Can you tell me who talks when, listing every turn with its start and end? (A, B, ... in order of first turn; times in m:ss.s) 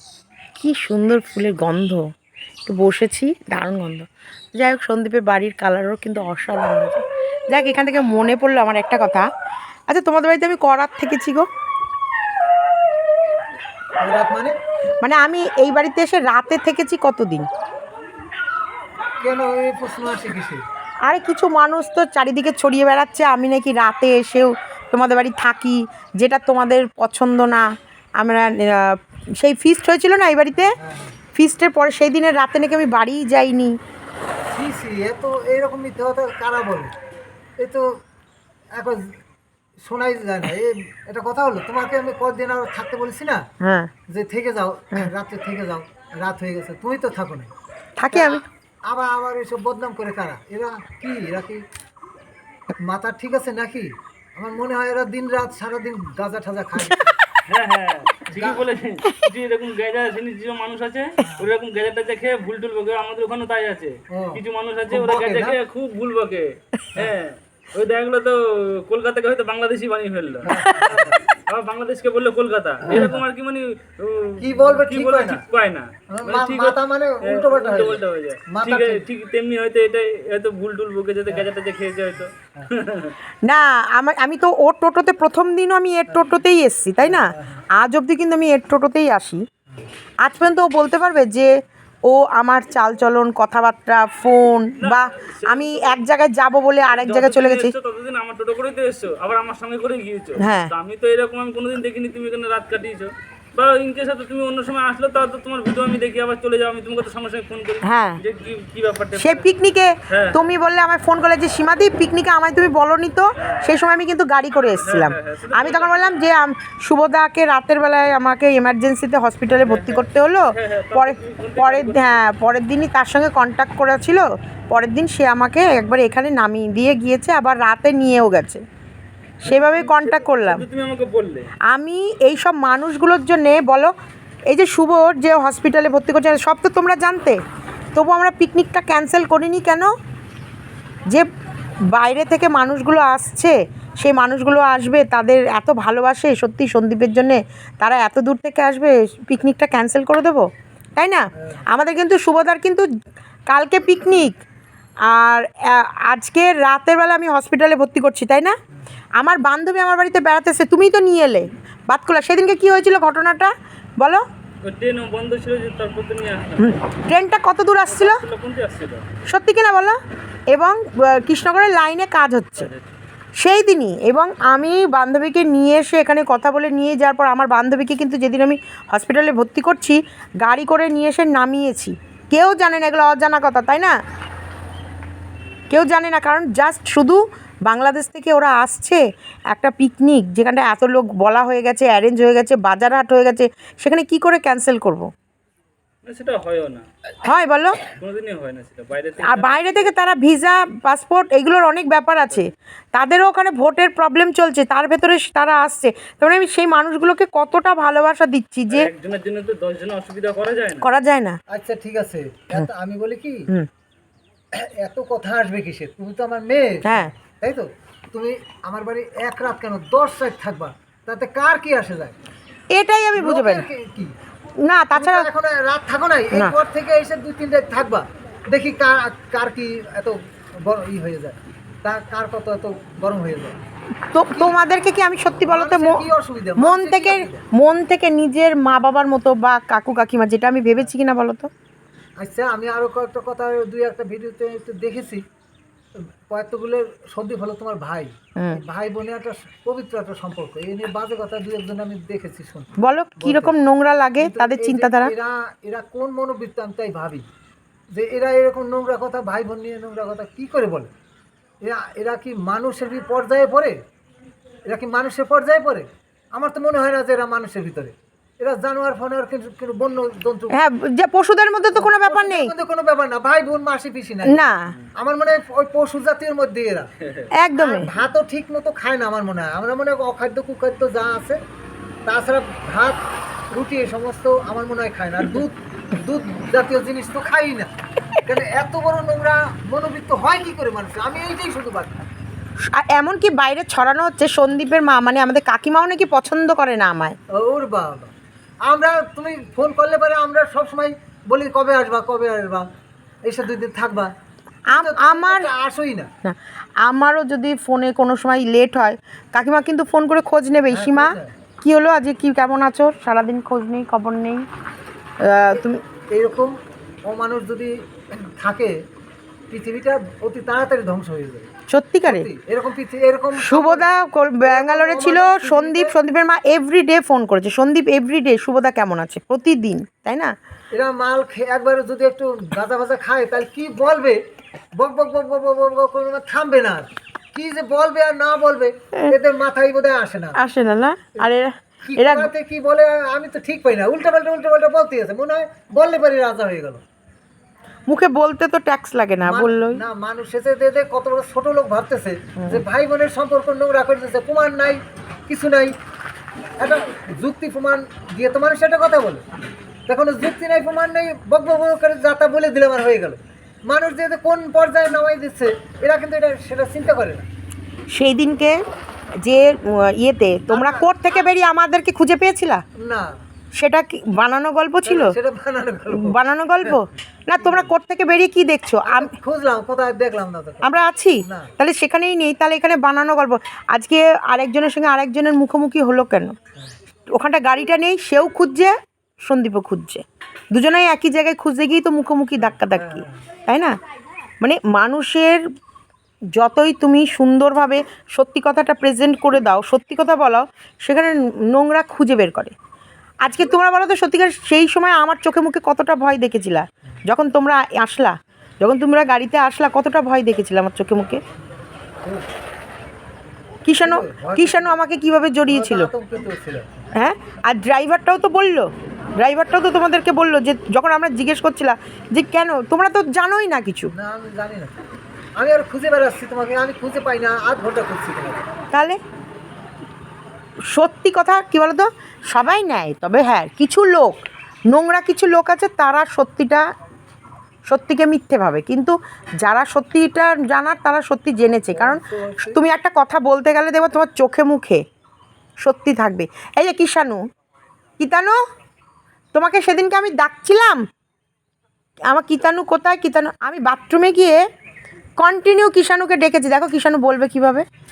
0:00.6-0:02.0 A
0:02.7-0:09.3 A
0:09.9-0:11.5 A
0:14.0-0:14.5 B
0:15.0-0:17.5 A
0:19.2-0:20.6 B
0:21.0-0:30.8 A
0:30.8-0:31.2 B
0:31.3-0:33.8 A
0:34.5-0:36.9 B
0:37.6-0:37.9 B
0:38.7-0:39.1 B
0:39.8-0:43.4 B
0:43.6-0:43.9 A
0:44.1-0:47.5 B
0:48.0-0:48.4 A
0:48.1-0:51.6 B
0:52.8-0:57.2 B
0:57.5-1:23.2 C
0:58.3-0:58.6 B
1:04.1-1:05.6 B
1:10.4-1:11.2 B
1:10.5-1:11.0 A
1:12.8-1:13.2 B
1:14.4-1:15.4 B
1:16.1-1:19.1 B
1:23.4-1:29.4 A
1:27.0-1:27.6 B
1:30.2-1:31.5 A
1:32.1-1:37.8 A
1:34.8-1:36.0 C
1:36.9-1:49.5 C
1:40.4-1:40.7 A
1:47.8-1:48.2 A
1:49.2-2:08.6 A
1:50.1-1:50.4 C
1:54.7-1:56.2 C
1:59.6-2:02.2 C
2:09.4-2:11.5 C
2:09.4-2:10.6 A
2:11.7-2:13.9 A
2:14.5-2:17.4 A
2:17.9-2:19.9 A
2:21.9-2:32.9 A
2:33.5-2:34.4 A
2:35.1-2:38.6 A
2:39.2-2:44.2 A
2:44.6-2:46.7 C
2:46.6-2:48.2 A
2:47.9-2:49.0 C
2:49.3-2:50.0 A
2:50.5-2:52.7 A
2:52.6-2:52.8 C
2:53.4-3:03.9 A
3:05.7-3:15.1 A
3:16.0-3:16.9 C
3:17.2-3:17.8 A
3:18.0-3:19.9 C
3:19.2-3:28.9 A
3:28.7-3:30.8 C
3:30.8-3:31.4 A
3:31.5-3:33.5 B
3:34.6-3:42.2 B
3:36.9-3:37.1 A
3:42.7-3:43.7 A
3:43.2-3:44.1 B
3:44.6-3:45.3 A
3:44.9-3:53.6 B
3:54.1-3:56.0 A
3:54.3-3:54.6 B
3:55.5-3:57.4 B
3:56.6-4:01.5 A
4:02.2-4:05.2 B
4:06.0-4:13.6 B
4:08.4-4:08.6 A
4:12.8-4:15.1 A
4:14.2-4:17.2 B
4:17.9-4:20.9 B
4:21.6-4:23.8 B
4:24.7-4:30.6 B
4:30.5-4:32.5 A
4:31.7-4:36.9 B
4:34.3-4:34.8 A
4:37.3-4:37.9 A
4:37.6-4:41.4 B
4:42.1-4:43.0 B
4:43.5-4:47.7 B
4:48.2-4:52.1 B
4:52.6-4:57.2 A
4:57.3-4:58.1 B
4:58.7-5:02.7 B
5:03.2-5:04.1 B
5:04.7-5:05.5 A
5:04.7-5:06.1 B
5:06.2-5:14.4 A
5:10.7-5:11.3 B
5:15.2-5:15.8 A
5:16.1-5:16.5 B
5:17.0-5:18.8 B
5:19.5-5:21.5 B
5:21.7-5:22.3 A
5:22.1-5:23.9 B
5:23.4-5:30.3 A
5:24.4-5:26.0 B
5:30.7-5:34.2 B
5:34.8-5:40.4 B
5:40.4-5:42.3 A
5:41.8-5:46.8 B
5:47.9-5:49.8 A
5:49.2-5:55.7 B
5:56.6-5:59.2 B
5:59.9-6:07.3 B
6:07.9-6:08.6 A
6:09.2-6:12.6 A
6:10.5-6:11.3 B
6:12.8-6:13.2 B
6:13.6-6:15.1 A
6:14.8-6:16.8 B
6:15.9-6:19.1 A
6:17.4-6:17.7 B
6:18.8-6:21.5 B
6:20.6-6:26.4 A
6:27.1-6:33.8 A
6:32.7-6:33.2 B
6:34.4-6:35.4 A
6:36.4-6:42.5 A
6:43.2-6:51.2 A
6:43.3-6:43.6 B
6:53.6-6:55.9 A
6:53.8-6:54.8 B
6:55.5-6:56.9 B
6:57.0-7:03.9 A
7:03.9-7:04.7 B
7:05.4-7:08.4 B
7:08.7-7:09.0 A
7:10.7-7:16.6 A
7:17.7-7:24.8 A
7:21.7-7:22.6 B
7:25.6-7:27.2 A
7:28.0-7:28.4 A
7:29.3-7:30.8 A
7:32.1-7:34.4 A
7:35.2-7:37.6 A